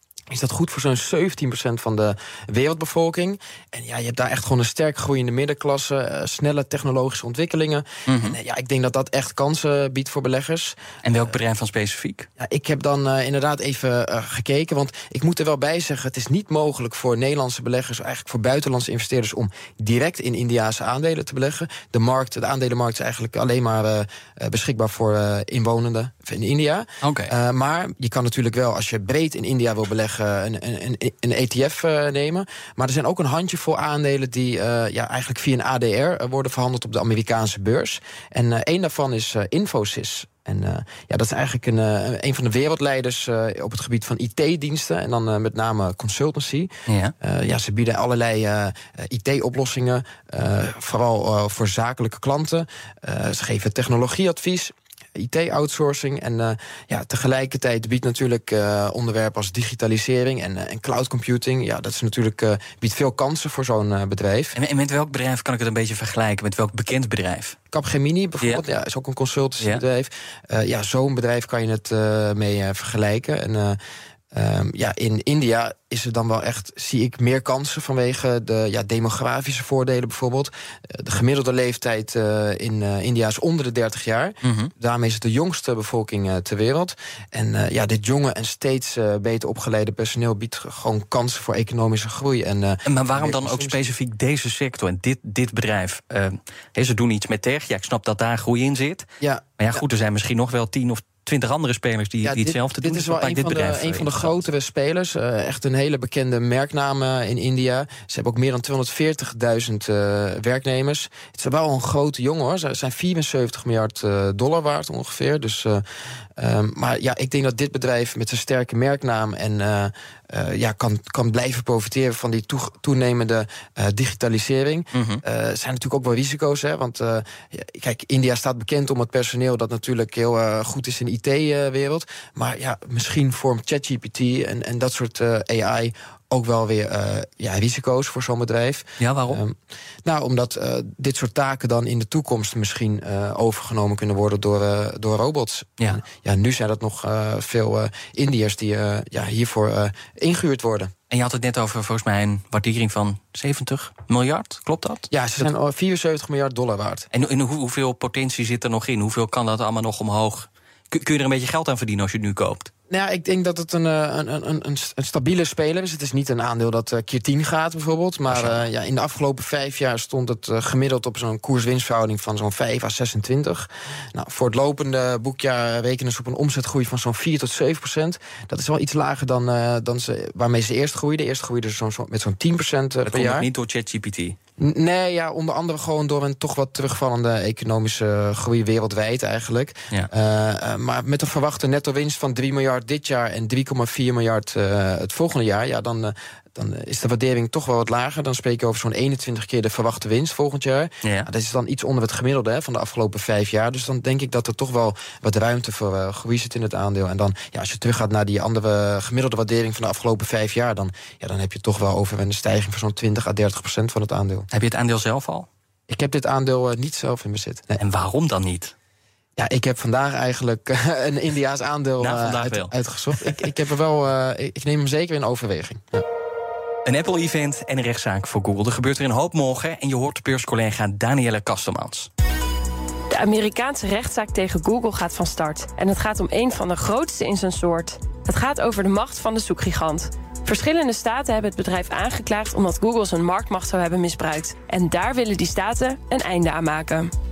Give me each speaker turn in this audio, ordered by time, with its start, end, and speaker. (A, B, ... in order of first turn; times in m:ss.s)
0:00.3-0:10.8 A
0:08.1-0:08.4 B
0:11.0-0:12.3 B
0:12.4-1:04.5 A
0:27.0-0:27.3 B
0:46.9-0:47.1 B
1:04.5-1:07.6 B
1:07.7-1:13.8 A
1:14.3-1:33.8 A
1:24.4-1:24.7 B
1:32.8-1:39.1 B
1:39.6-1:44.4 B
1:42.2-1:55.8 A
1:56.4-2:30.9 A
2:04.9-2:05.2 B
2:19.0-2:19.4 B
2:31.1-2:35.1 B
2:35.1-2:37.1 A
2:37.1-2:42.7 B
2:42.9-3:03.5 A
2:48.3-2:48.6 B
3:03.1-3:04.4 B
3:04.6-3:34.5 A
3:34.5-3:35.5 B
3:35.9-3:37.8 A
3:37.8-3:38.7 B
3:39.4-3:46.0 A
3:42.0-3:42.7 B
3:46.8-3:52.1 B
3:53.1-4:07.1 C